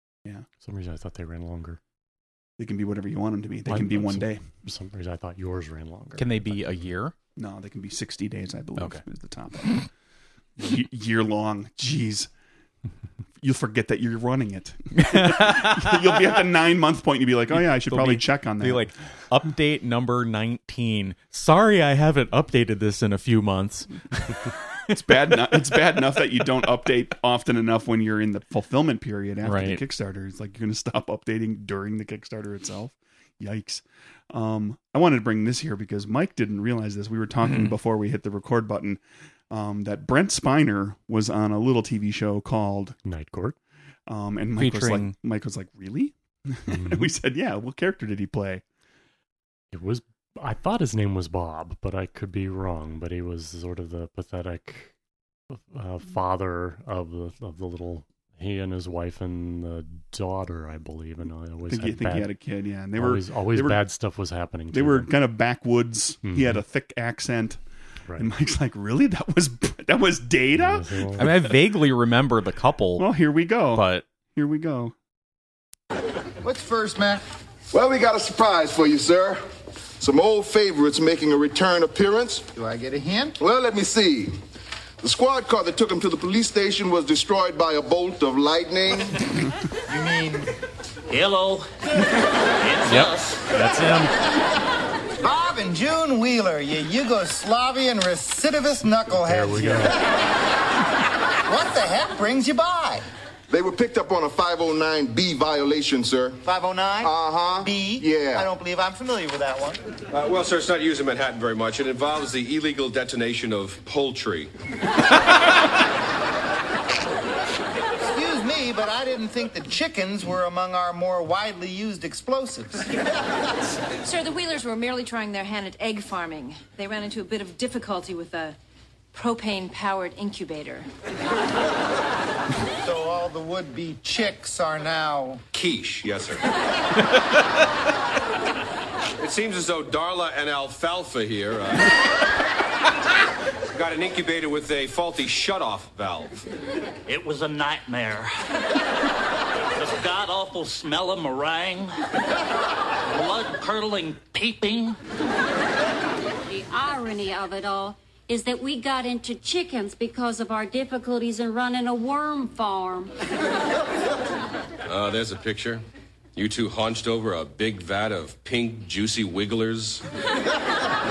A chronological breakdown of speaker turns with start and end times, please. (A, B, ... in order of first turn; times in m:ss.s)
0:00.6-0:01.8 A
0:02.6-0:04.4 B
0:03.6-0:06.6 A
0:06.2-0:07.1 C
0:07.4-0:09.9 B
0:08.8-0:09.0 C
0:10.6-0:12.3 B
0:13.4-0:18.9 B
0:14.9-0:16.4 C
0:17.5-0:26.0 C
0:24.9-0:39.0 B
0:29.4-0:29.8 C
0:39.5-0:43.0 B
0:43.0-0:43.6 A
0:44.1-0:48.6 B
0:44.6-0:45.1 C
0:46.7-0:47.1 A
0:49.7-0:54.9 A
0:55.5-1:02.3 A
1:01.7-1:03.8 B
1:02.9-1:05.1 A
1:04.7-1:07.6 B
1:06.3-1:06.6 A
1:08.2-1:11.4 B
1:10.5-1:11.4 A
1:11.2-1:13.1 C
1:13.0-1:14.9 B
1:13.7-1:14.0 C
1:16.4-1:17.2 D
1:17.7-1:19.4 E
1:20.0-1:22.5 E
1:22.5-1:23.4 D
1:23.4-1:24.3 E
1:25.0-1:29.3 E
1:29.9-1:30.5 D
1:31.1-1:33.4 F
1:32.9-1:34.1 C
1:35.2-1:40.1 D
1:39.1-1:40.0 A
1:41.4-1:43.0 D
1:43.5-1:46.4 E
1:46.4-1:49.8 D
1:47.0-1:48.5 E
1:50.1-1:54.5 G
1:58.0-2:02.9 D
2:03.9-2:08.6 H
2:09.1-2:10.9 H
2:12.8-2:15.4 D
2:15.5-2:16.4 G
2:19.2-2:21.9 G
2:23.7-2:26.4 G
2:27.0-2:28.3 F
2:29.8-2:32.0 F
2:33.1-2:35.0 F
2:36.5-2:43.1 I
2:44.9-2:45.8 G
2:46.3-2:50.0 G